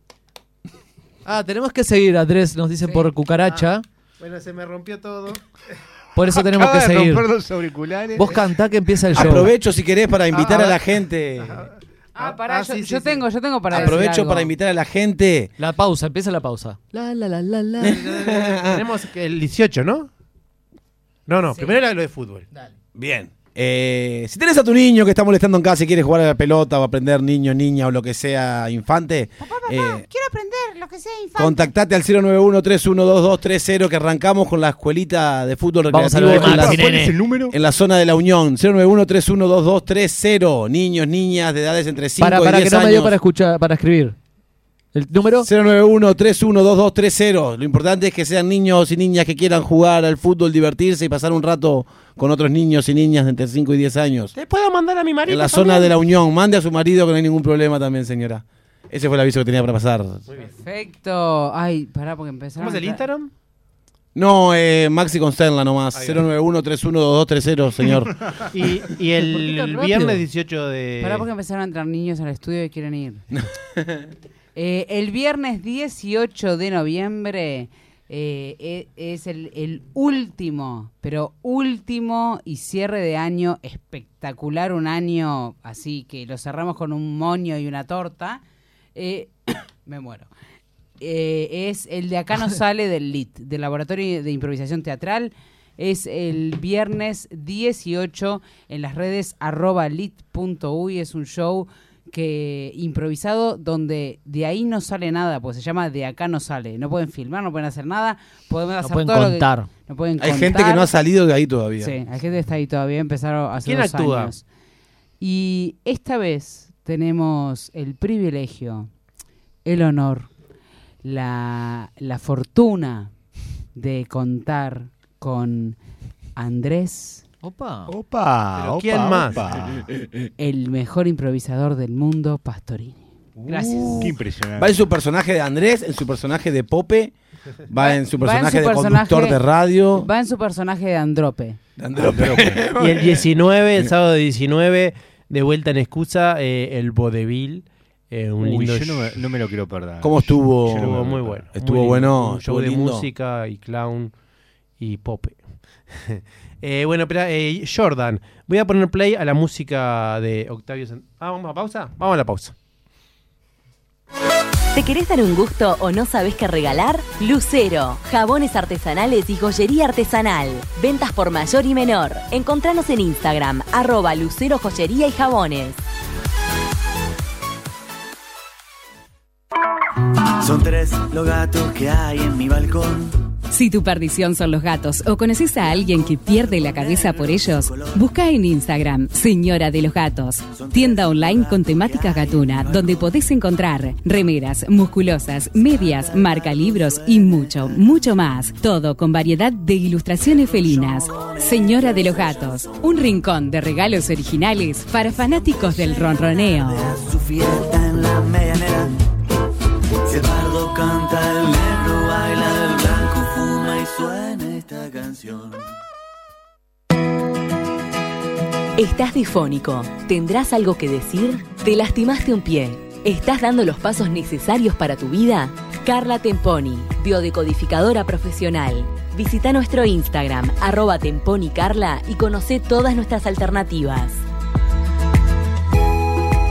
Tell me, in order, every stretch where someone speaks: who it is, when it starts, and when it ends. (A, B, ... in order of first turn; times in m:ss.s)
0:01.2-0:03.8 A
0:03.5-0:05.4 B
0:06.2-0:07.3 A
0:06.3-0:08.4 C
0:08.2-0:09.5 A
0:09.2-0:11.7 D
0:10.3-0:10.8 B
0:11.4-0:14.0 B
0:12.2-0:14.5 E
0:13.7-0:15.5 D
0:15.6-0:18.1 A
0:17.8-0:18.8 D
0:17.9-0:20.1 B
0:21.3-0:22.5 B
0:21.5-0:21.8 E
0:23.0-0:30.1 D
0:29.6-0:31.6 E
0:31.4-0:36.9 D
0:35.9-0:37.2 A
0:36.3-0:37.6 C
0:37.5-0:43.1 D
0:42.2-0:44.2 A
0:44.9-0:45.5 A
0:45.4-0:54.3 D
0:54.4-0:55.9 B
0:55.3-1:00.2 D
1:00.3-1:00.5 B
1:00.4-1:03.0 E
1:02.6-1:03.3 B
1:04.2-1:08.2 D
1:05.9-1:06.2 B
1:08.5-1:11.3 B
1:09.3-1:10.2 A
1:11.0-1:13.2 E
1:13.4-1:14.0 D
1:14.6-1:28.4 E
1:29.0-1:30.3 E
1:31.0-1:50.9 E
1:48.8-1:49.7 A
1:50.2-1:52.0 D
1:51.8-1:54.4 E
1:53.6-1:54.4 B
1:55.2-1:58.9 E
1:59.6-2:00.3 E
2:01.0-2:03.1 E
2:03.8-2:05.8 E
2:06.4-2:07.2 E
2:07.4-2:07.9 A
2:07.9-2:09.9 C
2:08.6-2:09.4 B
2:10.4-2:14.1 E
2:13.5-2:17.1 D
2:14.0-2:14.8 C
2:17.7-2:20.1 D
2:17.8-2:19.4 E
2:19.9-2:21.6 E
2:21.8-2:23.3 D
2:22.0-2:22.6 C
2:22.7-2:29.2 B
2:28.4-2:31.5 C
2:30.0-2:31.0 D
2:30.8-2:34.1 B
2:31.5-2:33.1 D
2:34.8-2:42.6 B
2:44.7-2:55.8 F
3:00.4-3:03.2 G
3:03.5-3:26.9 H
3:05.6-3:08.1 G
3:10.5-3:13.1 G
3:15.7-3:17.9 G
3:20.2-3:22.8 G
3:25.1-3:28.9 G
3:30.1-3:35.7 G
3:38.8-3:54.2 F